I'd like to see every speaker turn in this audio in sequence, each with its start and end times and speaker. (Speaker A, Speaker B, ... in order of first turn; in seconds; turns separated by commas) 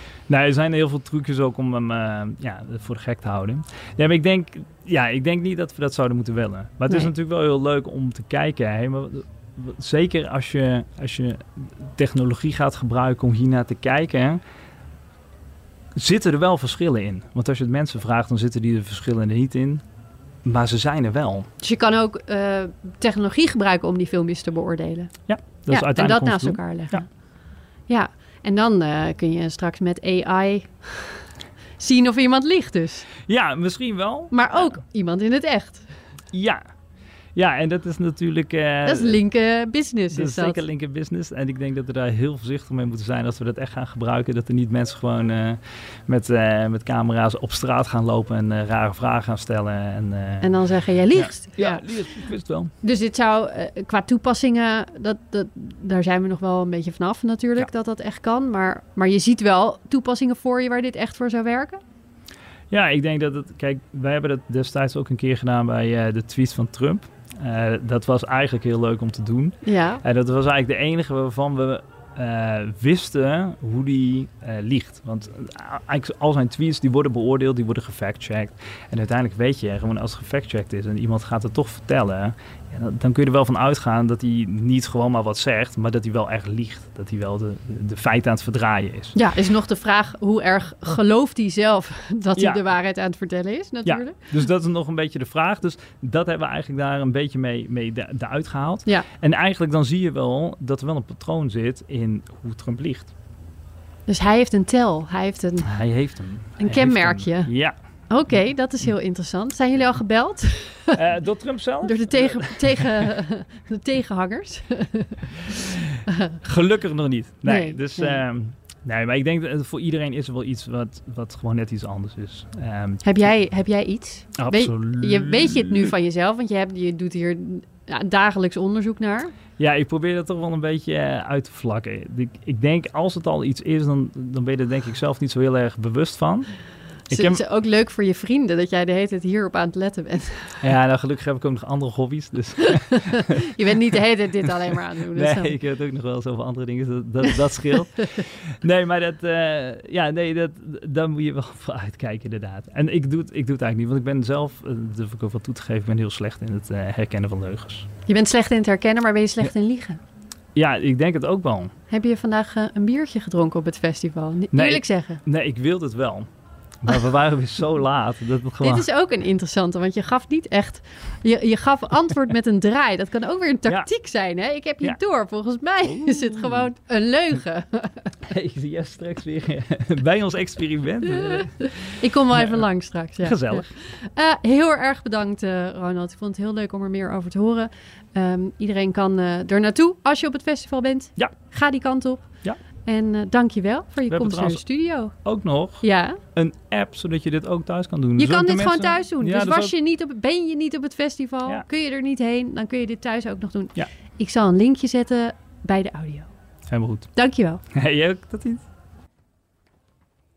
Speaker A: 0.3-14.4, Speaker A: 16.0-19.8, Speaker A: 20.4-21.5, Speaker B: 21.6-25.1, Speaker A: 25.3-27.0, Speaker B: 25.7-27.0, Speaker B: 27.9-31.2, Speaker B: 31.8-33.1, Speaker A: 33.2-34.6, Speaker B: 34.3-35.9, Speaker A: 36.3-36.6, Speaker A: 37.3-39.2, Speaker B: 38.8-40.6, Speaker A: 40.1-50.5, Speaker B: 50.4-51.8, Speaker A: 51.1-52.7, Speaker B: 52.8-61.8, Speaker A: 62.7-89.2, Speaker B: 69.6-70.0, Speaker B: 89.1-94.3, Speaker A: 92.4-92.6, Speaker A: 93.8-103.1, Speaker B: 104.1-105.7, Speaker A: 105.6-107.7, Speaker B: 106.6-107.5, Speaker B: 108.1-111.0, Speaker A: 110.9-113.1, Speaker B: 111.8-115.5, Speaker A: 115.6-123.2, Speaker B: 117.4-118.2, Speaker B: 123.0-129.3, Speaker A: 124.4-125.9, Speaker A: 129.6-136.5, Speaker A: 137.1-137.4, Speaker B: 137.1-140.6, Speaker A: 140.6-143.5, Speaker B: 142.7-145.6, Speaker A: 145.1-157.9, Speaker B: 158.1-160.0, Speaker A: 160.5-161.7, Speaker B: 161.9-165.2, Speaker A: 164.5-166.3, Speaker A: 166.8-168.9, Speaker B: 168.6-178.2, Speaker A: 175.9-176.7, Speaker A: 178.2-181.7, Speaker B: 181.5-192.2, Speaker A: 182.3-182.7, Speaker A: 183.2-183.7, Speaker B: 192.8-195.1, Speaker A: 194.1-194.6, Speaker A: 195.2-199.7, Speaker B: 195.8-196.2, Speaker B: 198.2-206.3, Speaker A: 206.7-207.1, Speaker B: 207.2-207.6, Speaker A: 207.7-208.6